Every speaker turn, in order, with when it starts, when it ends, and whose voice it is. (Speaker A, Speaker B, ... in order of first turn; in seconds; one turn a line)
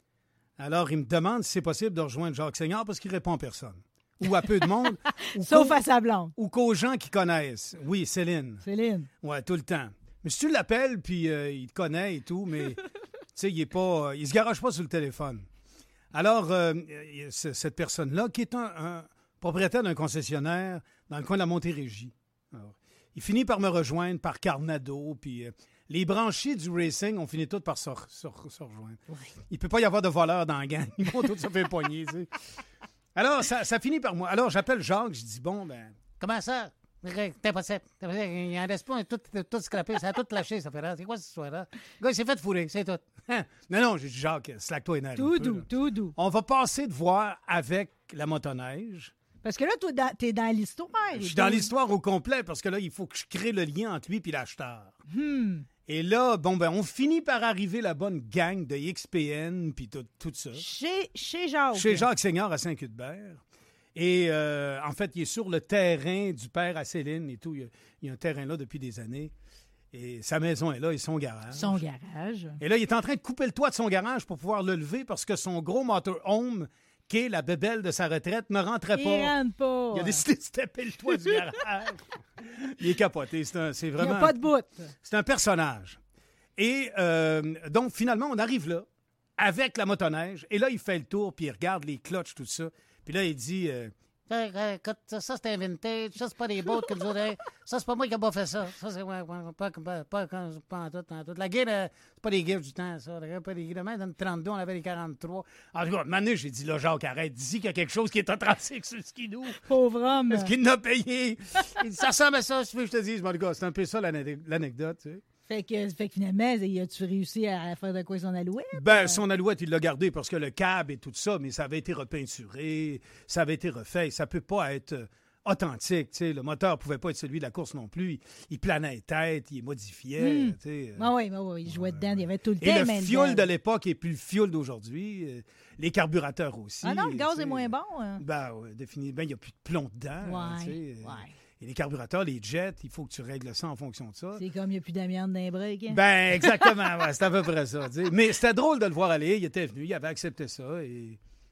Speaker A: 0.6-5.8
Speaker B: 4.3-4.6
Speaker B: 5.2-6.3
Speaker A: 6.3-8.6
Speaker B: 8.6-9.1
Speaker A: 9.2-12.8
Speaker A: 13.3-15.4
Speaker A: 16.1-32.3
Speaker A: 33.1-36.0
Speaker C: 36.2-43.1
Speaker A: 43.3-49.1
Speaker B: 45.1-46.1
Speaker B: 49.4-51.7
Speaker A: 51.1-55.0
Speaker B: 55.1-55.7
Speaker A: 55.9-60.7
Speaker B: 60.5-62.1
Speaker A: 61.7-63.4
Speaker A: 63.9-69.3
Speaker A: 69.9-71.8
Speaker B: 71.5-72.6
Speaker A: 72.6-79.3
Speaker B: 78.9-80.2
Speaker A: 79.9-84.4
Speaker B: 84.0-84.9
Speaker A: 85.0-86.0
Speaker A: 86.5-88.8
Speaker A: 89.4-93.9
Speaker C: 94.3-105.7
Speaker A: 105.7-109.6
Speaker B: 109.6-110.5
Speaker A: 110.3-112.1
Speaker C: 112.0-112.8
Speaker A: 112.6-115.2
Speaker B: 115.5-119.2
Speaker A: 118.7-131.1
Speaker B: 130.2-133.4
Speaker A: 131.7-144.4
Speaker B: 136.8-138.2
Speaker B: 140.2-141.3
Speaker B: 144.4-146.7
Speaker A: 145.9-151.2